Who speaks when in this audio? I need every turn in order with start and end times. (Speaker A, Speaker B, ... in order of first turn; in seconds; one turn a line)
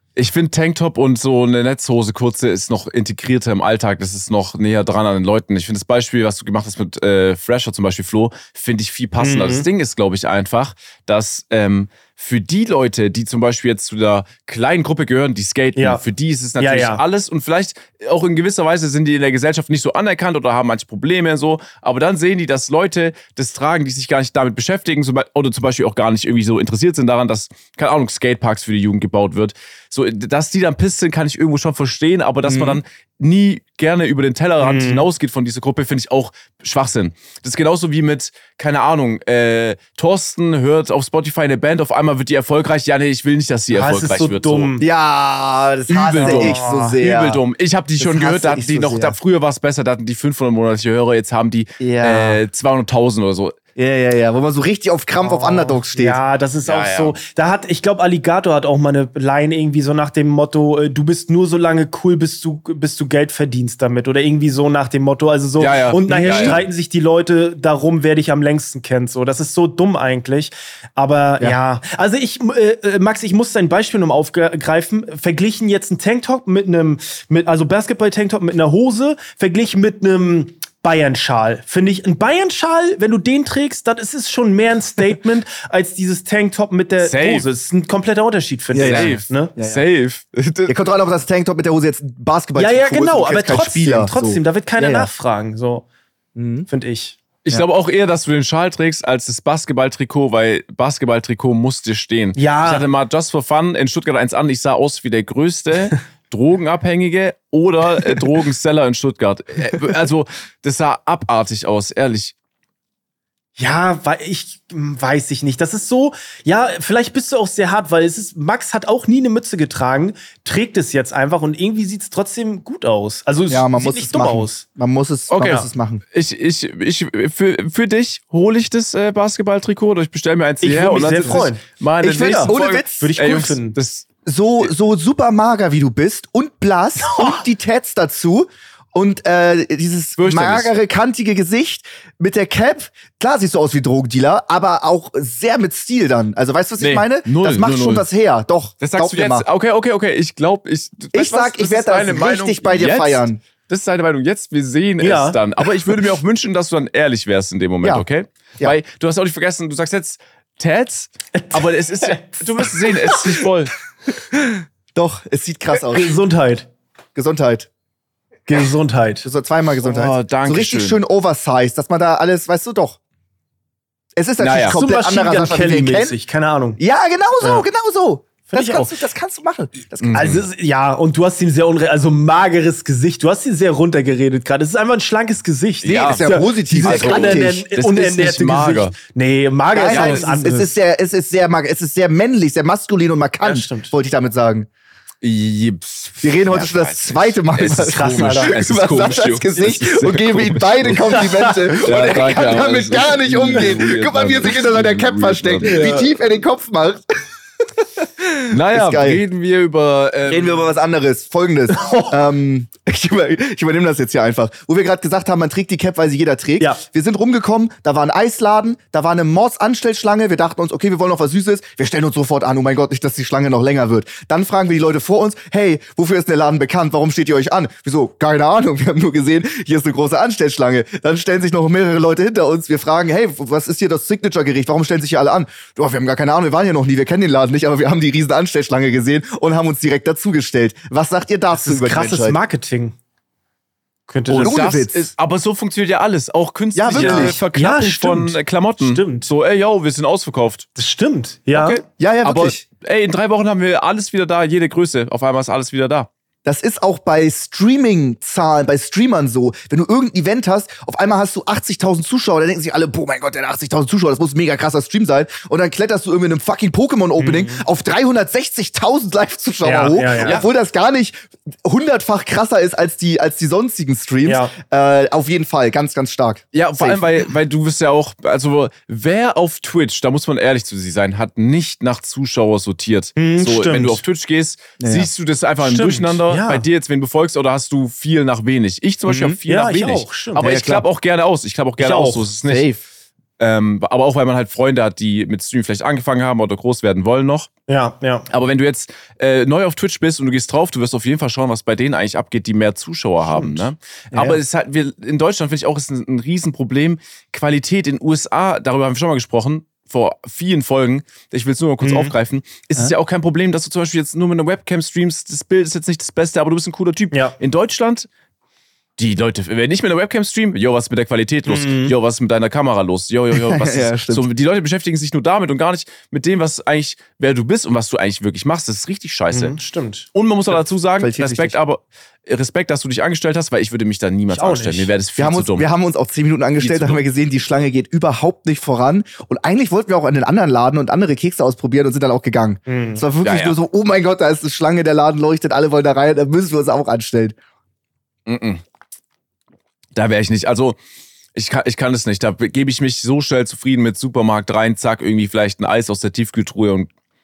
Speaker A: 0.1-44.7
Speaker B: 9.2-9.7
Speaker B: 15.8-16.0
Speaker B: 16.6-17.0
Speaker C: 32.5-32.8
Speaker B: 34.6-35.0
Speaker B: 43.7-44.9
Speaker C: 44.8-47.4
Speaker A: 45.9-53.5
Speaker B: 46.2-47.0
Speaker C: 48.0-49.1
Speaker C: 51.8-52.4
Speaker C: 53.8-56.2
Speaker B: 55.2-89.5
Speaker A: 56.6-57.1
Speaker A: 65.6-66.6
Speaker C: 66.2-66.6
Speaker A: 87.0-87.5
Speaker C: 88.7-89.8
Speaker A: 88.8-90.7
Speaker C: 90.7-95.1
Speaker B: 92.5-95.8
Speaker C: 96.4-96.7
Speaker B: 96.7-97.2
Speaker A: 97.4-112.3
Speaker B: 102.4-102.9
Speaker B: 113.6-124.6
Speaker C: 123.5-126.0
Speaker A: 125.3-134.1
Speaker B: 125.4-125.7
Speaker B: 130.6-133.8
Speaker C: 132.0-133.1
Speaker C: 134.2-149.4
Speaker B: 137.0-137.4
Speaker A: 140.2-140.7
Speaker A: 146.8-148.1
Speaker A: 148.8-163.7
Speaker C: 151.1-153.4
Speaker B: 155.0-155.4
Speaker B: 161.3-163.3
Speaker C: 164.3-166.1
Speaker B: 165.7-166.7
Speaker C: 167.1-167.7
Speaker B: 168.5-169.3
Speaker C: 169.2-173.0
Speaker A: 169.8-171.0
Speaker C: 174.2-176.2
Speaker A: 174.4-174.8
Speaker B: 174.7-176.8
Speaker C: 176.8-180.4
Speaker B: 178.5-179.0
Speaker A: 180.0-180.4
Speaker B: 180.1-190.7
Speaker A: 185.8-186.2
Speaker C: 186.0-187.6
Speaker A: 186.8-188.9
Speaker C: 189.7-194.7
Speaker A: 189.9-190.2
Speaker B: 193.4-193.9
Speaker A: 195.2-201.1
Speaker C: 196.2-207.2
Speaker B: 197.7-198.6
Speaker B: 200.9-202.3
Speaker A: 201.8-206.0
Speaker B: 205.7-206.0
Speaker C: 207.8-209.2
Speaker A: 208.5-210.7
Speaker C: 210.3-242.4
Speaker B: 211.7-212.1
Speaker B: 241.5-242.9
Speaker B: 244.1-244.6
Speaker A: 244.3-250.7
Speaker C: 244.4-245.1
Speaker C: 246.7-247.4
Speaker B: 246.9-249.3
Speaker B: 250.8-251.8
Speaker A: 251.5-256.1
Speaker C: 252.0-252.6
Speaker C: 256.4-277.0
Speaker B: 267.2-267.6
Speaker B: 269.6-270.4
Speaker B: 274.2-274.5
Speaker A: 276.5-292.7
Speaker B: 283.1-284.0
Speaker C: 284.8-285.1
Speaker B: 285.6-286.6
Speaker B: 289.4-290.5
Speaker C: 290.4-290.9
Speaker B: 291.8-292.2
Speaker C: 292.4-292.8
Speaker A: 293.4-297.5
Speaker B: 297.7-298.2
Speaker A: 298.3-318.1
Speaker C: 304.1-304.4
Speaker B: 311.8-312.1
Speaker A: 319.0-329.6
Speaker B: 321.5-321.9
Speaker C: 323.3-324.3
Speaker B: 329.3-330.1
Speaker A: 330.1-335.6
Speaker C: 331.0-331.6
Speaker B: 334.3-334.9
Speaker C: 335.2-347.4
Speaker A: 336.6-337.0
Speaker B: 342.7-343.0
Speaker A: 343.2-343.6
Speaker A: 348.2-348.6
Speaker A: 349.9-350.8
Speaker A: 351.4-356.9